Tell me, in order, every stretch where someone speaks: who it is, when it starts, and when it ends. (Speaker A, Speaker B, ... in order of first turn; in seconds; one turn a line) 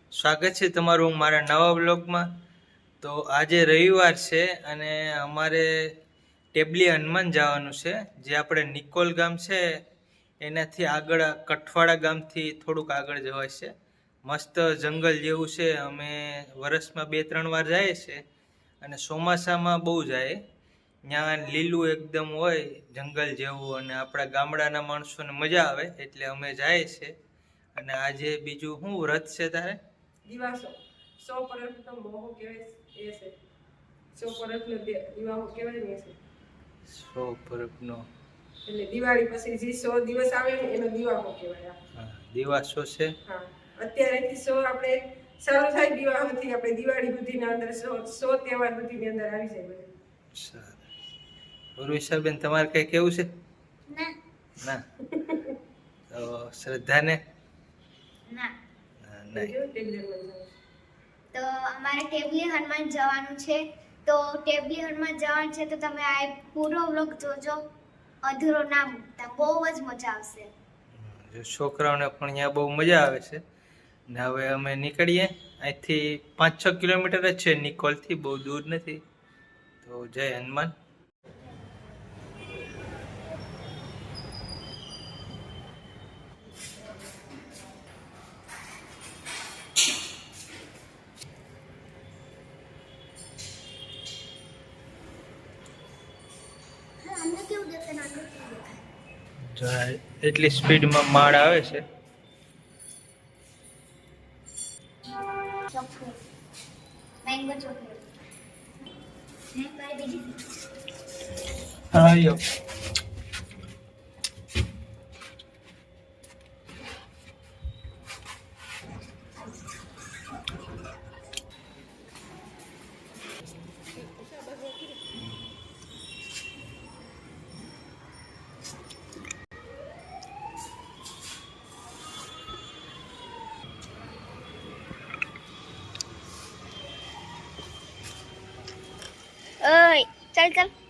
Speaker A: 0.2-2.3
Speaker A: 3.0-5.7
Speaker A: 6.5-9.6
Speaker A: 10.4-13.7
Speaker A: 14.3-18.2
Speaker A: 18.8-20.4
Speaker A: 21.1-27.1
Speaker A: 27.8-29.8
Speaker B: 30.3-33.3
Speaker B: 34.1-36.2
Speaker A: 36.9-38.1
Speaker B: 38.7-41.8
Speaker A: 42.0-43.1
Speaker B: 43.3-49.9
Speaker A: 50.3-50.8
Speaker A: 51.8-53.3
Speaker C: 53.9-54.1
Speaker B: 55.1-55.5
Speaker A: 56.1-57.2
Speaker C: 58.3-58.5
Speaker A: 59.0-59.5
Speaker B: 59.4-60.5
Speaker C: 61.3-67.6
Speaker C: 68.2-70.5
Speaker A: 71.0-73.4
Speaker A: 74.1-79.0
Speaker A: 79.8-80.7
Speaker C: 97.0-98.8
Speaker A: 99.5-101.8
Speaker C: 105.7-106.2
Speaker C: 107.2-108.0
Speaker C: 109.5-110.4
Speaker A: 111.9-112.4
Speaker C: 139.6-140.7